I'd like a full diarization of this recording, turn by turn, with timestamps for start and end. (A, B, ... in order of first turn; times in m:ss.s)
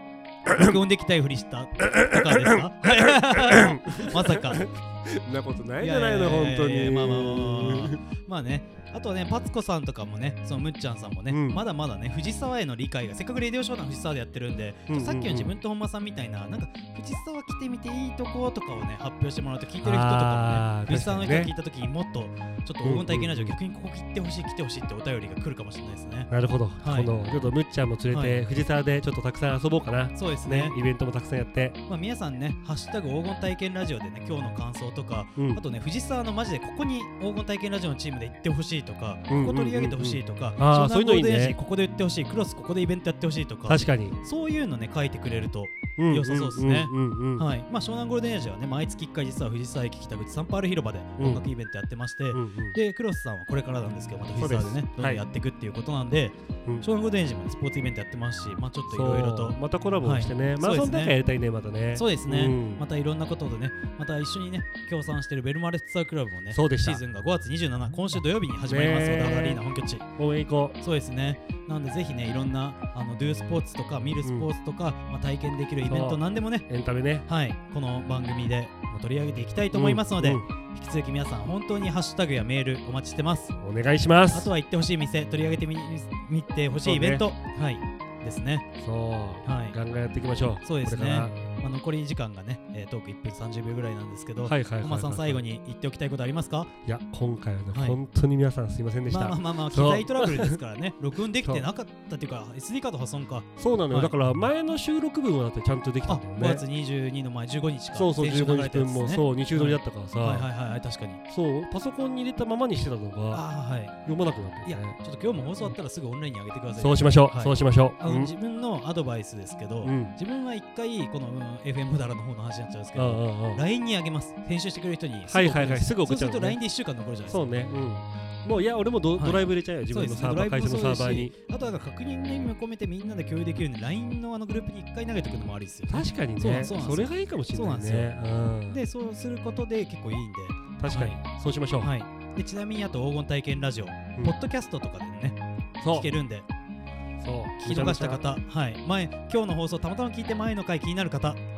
0:00.5-0:00.7 A
0:00.5-0:04.7 B
0:01.9-0:08.0 A
0:05.8-0:27.1 B
0:11.3-0:11.6 A
0:14.9-0:15.5 A
0:19.8-0:21.5 A
0:22.8-0:23.6 A
0:26.3-0:31.8 A
0:28.1-0:28.4 B
0:30.2-0:30.8 B
0:31.9-1:01.2 B
0:35.4-0:35.6 A
0:39.3-0:41.6 A
0:43.7-0:44.2 A
0:46.0-0:47.5 A
0:51.2-0:51.5 A
0:52.3-0:52.8 A
0:54.4-0:55.2 A
0:58.9-1:02.8 A
1:01.9-1:10.0 B
1:06.5-1:07.0 A
1:08.6-1:10.8 A
1:10.8-1:16.7 B
1:14.2-1:14.5 A
1:15.8-1:17.2 A
1:17.3-1:23.5 B
1:19.7-1:20.5 A
1:23.6-1:24.5 A
1:24.3-1:28.7 B
1:26.8-1:27.3 A
1:28.8-1:31.4 A
1:29.4-1:29.8 B
1:30.6-1:36.7 B
1:34.4-1:35.4 A
1:36.8-1:40.6 A
1:37.7-1:38.0 B
1:39.1-1:44.1 B
1:43.6-1:46.6 A
1:46.1-1:51.2 B
1:47.9-1:50.5 A
1:51.3-1:55.0 A
1:53.3-1:54.0 B
1:54.6-2:07.5 B
1:56.8-1:58.3 A
1:59.8-2:00.1 A
2:03.0-2:03.6 A
2:05.3-2:06.6 A
2:07.3-2:11.3 A
2:09.2-2:18.2 B
2:15.9-2:18.8 A
2:18.7-2:21.2 B
2:20.8-2:21.9 A
2:21.8-2:26.5 B
2:25.8-2:26.1 A
2:27.2-2:28.3 A
2:27.6-2:31.4 B